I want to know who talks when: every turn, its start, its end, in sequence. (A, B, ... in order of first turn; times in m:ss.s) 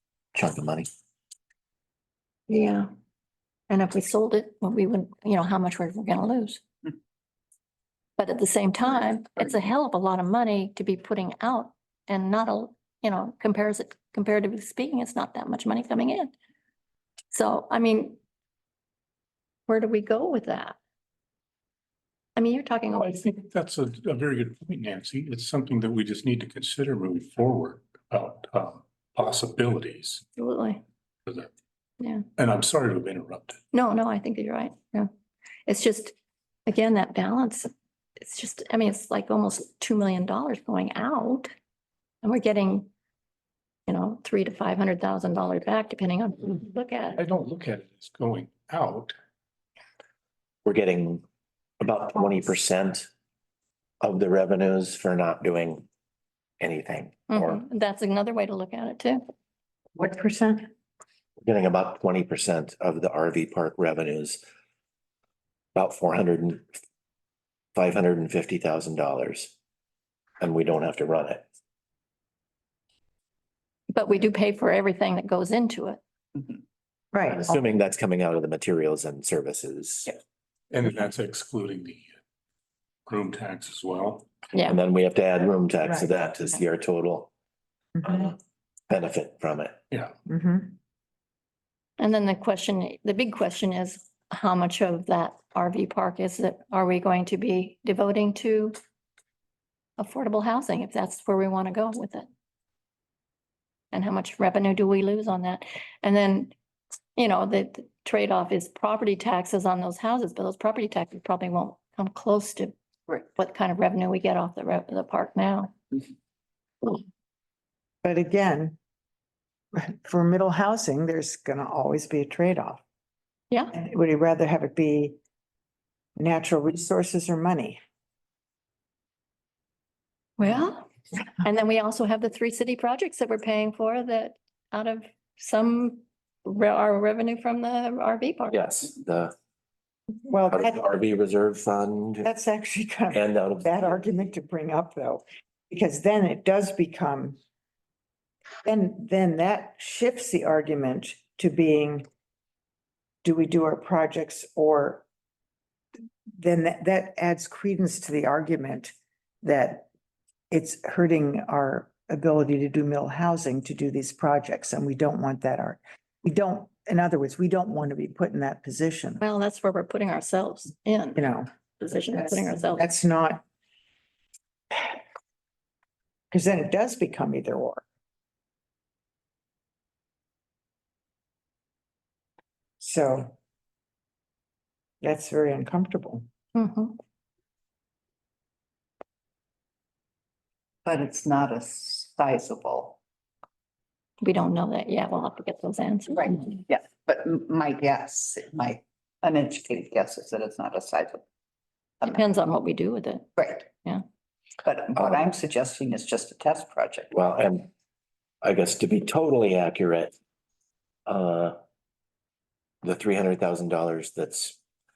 0:00.3-0:00.9 A
0:02.5-0:02.9 B
0:03.7-0:06.6 B
0:08.2-0:16.3 B
0:17.3-0:18.2 B
0:19.7-0:20.8 B
0:22.4-0:23.1 B
0:22.9-0:30.2 C
0:30.4-0:30.8 B
0:32.4-0:33.6 C
0:33.7-0:35.1 B
0:35.7-0:36.1 B
0:36.6-0:37.7 B
0:38.2-0:41.5 B
0:42.2-0:42.9 B
0:43.9-0:47.2 B
0:47.2-0:49.1 C
0:50.6-0:51.2 A
0:51.8-0:53.1 A
0:54.0-0:55.8 A
0:56.6-0:57.6 A
0:57.3-0:59.2 B
0:59.9-1:00.6 D
1:01.4-1:04.4 A
1:05.7-1:06.6 A
1:07.7-1:09.5 A
1:10.4-1:11.4 A
1:13.9-1:16.0 B
1:17.1-1:17.5 D
1:17.3-1:20.1 A
1:20.7-1:22.0 C
1:23.1-1:24.3 C
1:24.6-1:27.3 A
1:28.0-1:28.2 D
1:28.0-1:28.4 A
1:28.9-1:29.8 A
1:30.3-1:30.8 D
1:32.0-1:38.8 B
1:40.0-1:42.3 B
1:43.9-1:46.5 B
1:47.2-1:55.8 B
1:58.0-1:58.8 D
1:59.7-2:02.8 D
2:03.7-2:05.2 D
2:06.2-2:07.8 D
2:10.4-2:18.6 B
2:18.5-2:19.3 A
2:20.3-2:20.8 D
2:20.5-2:22.3 A
2:22.2-2:27.4 D
2:23.1-2:23.7 A
2:28.6-2:32.0 D
2:33.2-2:35.0 D
2:36.4-2:39.9 D
2:40.5-2:49.2 D
2:49.2-2:52.9 B
2:51.2-2:51.5 D
2:52.1-2:53.4 D
2:56.3-2:57.8 D
3:02.8-3:03.3 D
3:05.0-3:06.2 D
3:06.5-3:07.0 B
3:10.8-3:13.0 E
3:14.2-3:16.5 B
3:16.1-3:21.2 E
3:22.0-3:24.0 B
3:23.4-3:23.7 E
3:24.6-3:27.1 E
3:27.1-3:27.7 A
3:28.4-3:30.1 A
3:31.0-3:31.6 A
3:32.8-3:34.6 A